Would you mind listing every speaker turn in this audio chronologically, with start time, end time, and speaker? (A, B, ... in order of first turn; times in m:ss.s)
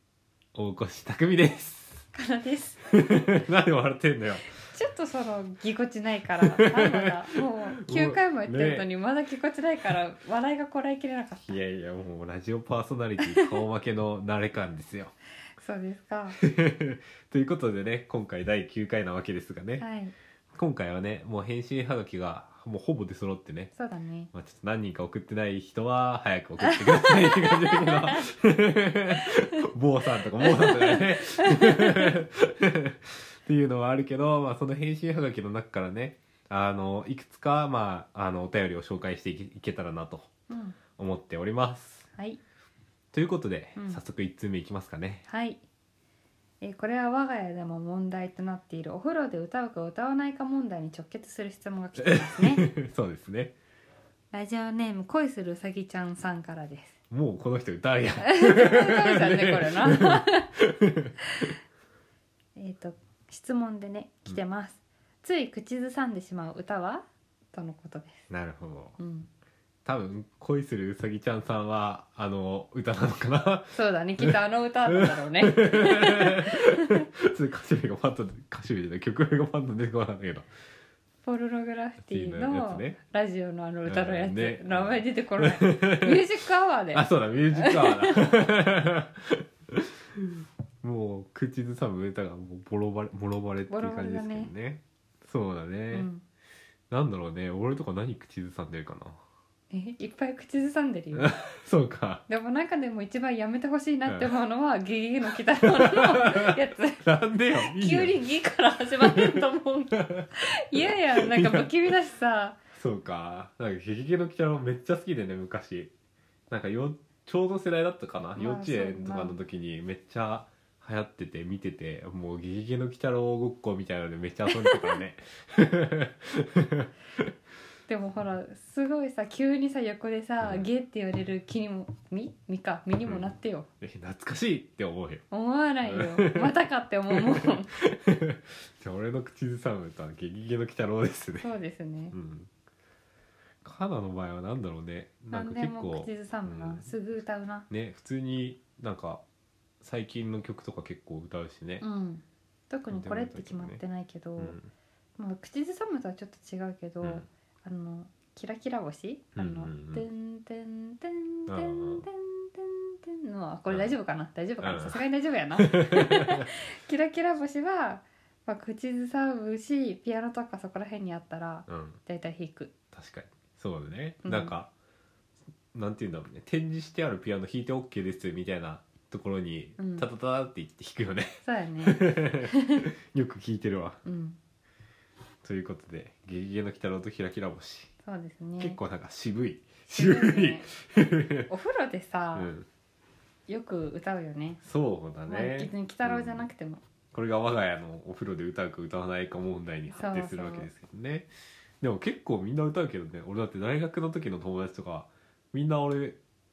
0:00.5-0:02.0 A
0:02.1-0:03.3 B
0:03.0-0:04.5 A
0:04.6-0:11.5 B
0:06.6-0:07.1 A
0:07.8-0:08.9 A
0:11.4-0:15.1 A
0:13.2-0:13.5 B
0:15.6-0:16.4 B
0:16.4-0:19.8 A
0:19.8-0:20.1 B
0:20.5-0:23.7 A
0:23.7-0:24.3 B
0:24.3-0:40.3 A
0:26.6-0:28.2 B
0:30.4-0:32.1 B
0:40.5-0:40.8 B
0:41.0-0:42.1 A
0:43.1-0:45.2 A
0:43.8-0:44.0 B
0:45.3-0:45.6 B
0:46.6-0:52.7 B
0:52.0-0:53.6 A
0:54.3-0:57.0 B
0:57.1-1:01.1 A
0:58.2-1:00.5 B
1:02.6-1:08.3 B
1:08.3-1:09.0 A
1:09.0-1:09.3 B
1:09.8-1:20.5 A
1:13.7-1:17.0 B
1:21.2-1:28.2 B
1:22.0-1:23.0 A
1:23.8-1:26.2 A
1:26.9-1:36.1 A
1:33.7-1:34.5 B
1:35.9-1:36.2 B
1:36.9-1:39.2 A
1:39.7-1:41.3 B
1:41.1-1:42.2 A
1:42.3-1:47.0 B
1:44.1-1:44.3 A
1:45.6-1:48.2 A
1:47.6-1:52.6 B
1:49.0-1:49.3 A
1:49.9-1:51.8 A
1:52.7-1:55.9 A
1:56.5-2:07.3 A
1:58.4-1:59.4 B
2:04.5-2:05.0 B
2:07.9-2:13.7 B
2:10.4-2:10.6 A
2:13.8-2:15.2 A
2:15.3-2:17.7 B
2:15.8-2:16.5 A
2:17.1-2:21.5 A
2:21.4-2:22.2 B
2:22.1-2:22.5 A
2:23.6-2:26.9 A
2:25.3-2:27.7 B
2:27.7-2:29.2 A
2:29.8-2:31.8 A
2:31.8-2:34.6 B
2:32.9-2:33.8 A
2:34.4-2:34.7 A
2:35.2-2:52.7 B
2:39.4-2:40.0 A
2:41.5-2:42.0 A
2:44.6-2:45.0 A
2:45.6-2:46.5 A
2:51.7-2:52.0 A
2:52.9-2:54.7 A
2:54.2-2:54.5 B
2:55.7-3:04.0 A
2:59.8-3:00.1 B
3:01.4-3:02.8 B
3:04.0-3:04.4 B
3:05.4-3:07.9 A
3:08.0-3:08.8 B
3:08.6-3:11.5 A
3:09.9-3:10.7 B
3:11.5-3:12.5 B
3:12.3-3:12.7 A
3:13.5-3:14.6 B
3:14.6-3:16.5 A
3:15.3-3:16.8 B
3:17.1-3:21.3 A
3:19.9-3:20.7 B
3:21.8-3:26.2 A